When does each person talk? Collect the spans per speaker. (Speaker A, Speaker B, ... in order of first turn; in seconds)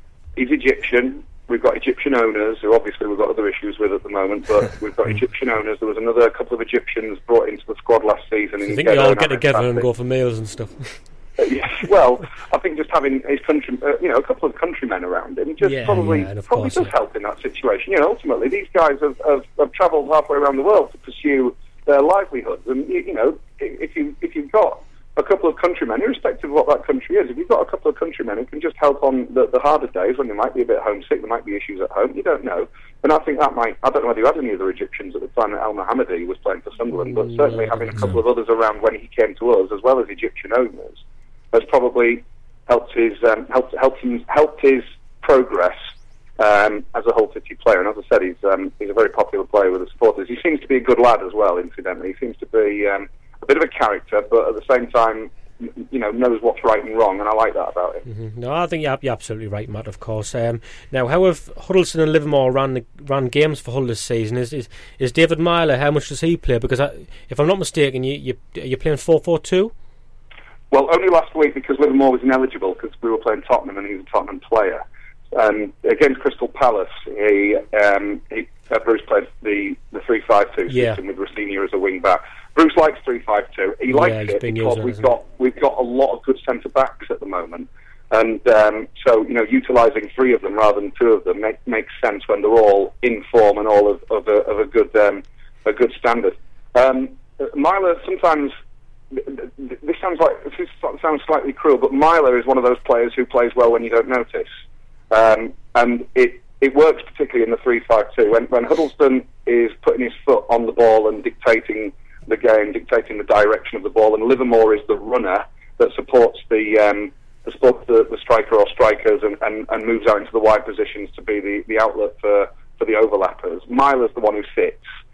Speaker A: 0.4-9.9, 11.4-58.0, 70.7-98.5, 99.1-104.5, 105.1-124.8
Speaker B: 8.6-11.2, 15.6-16.9, 37.0-37.9, 58.1-69.7, 80.7-81.0, 83.9-85.1